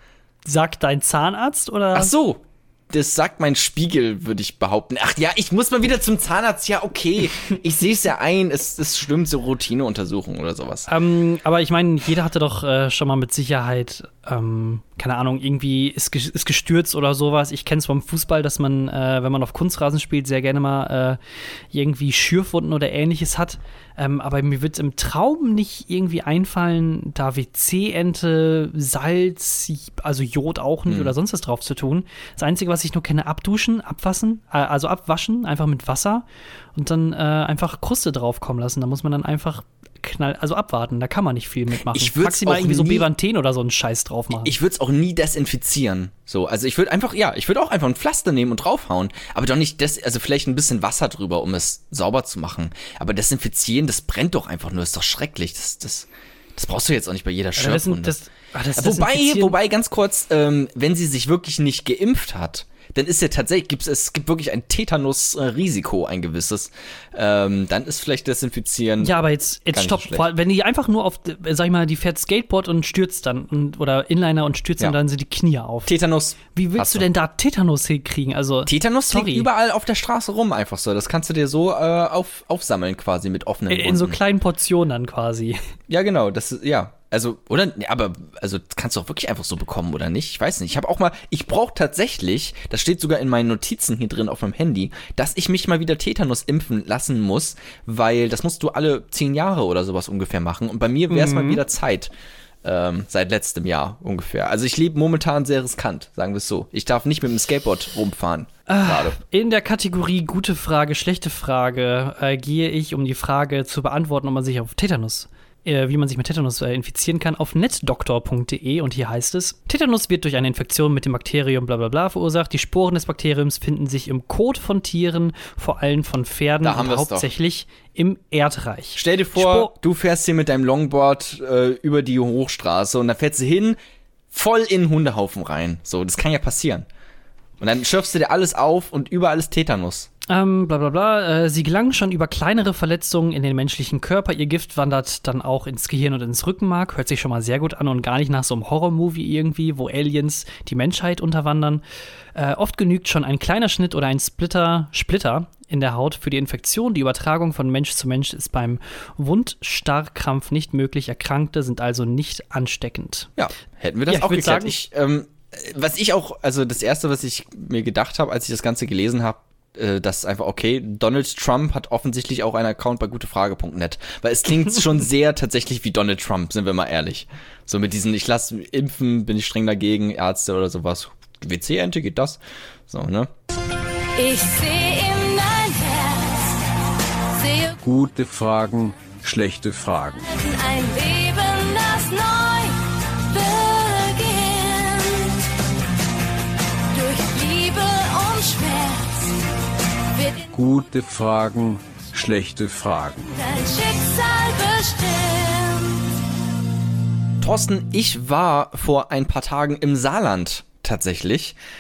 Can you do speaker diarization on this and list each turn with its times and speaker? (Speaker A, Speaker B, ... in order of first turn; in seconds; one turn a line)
Speaker A: 0.5-2.1
Speaker B: 1.9-10.9
Speaker A: 10.9-21.2
Speaker A: 21.7-44.6
Speaker B: 30.9-31.1
Speaker B: 41.8-43.1
Speaker B: 44.4-58.2
Speaker A: 57.6-59.6
Speaker B: 58.8-69.2
Speaker A: 69.0-76.0
Speaker B: 69.7-70.3
Speaker B: 75.9-77.0
Speaker A: 76.5-79.5
Speaker B: 78.7-84.2
Speaker A: 83.7-85.6
Speaker B: 85.9-102.1
Speaker A: 101.1-101.6
Speaker B: 102.6-109.2
Speaker A: 108.7-129.7
Speaker B: 126.6-127.3
Speaker B: 128.9-133.8
Speaker B: 134.3-136.9
Speaker B: 137.6-140.1
Speaker A: 140.3-151.8
Speaker A: 152.3-163.3
Speaker B: 163.4-183.3
Speaker A: 164.1-164.7
Speaker C: 184.2-186.7
Speaker C: 187.3-187.8
Speaker D: 187.8-190.2
Speaker C: 190.2-195.4
Speaker C: 196.9-199.4
Speaker C: 200.1-200.5
Speaker D: 200.5-203.3
Speaker C: 203.3-206.0
Speaker B: 207.4-211.6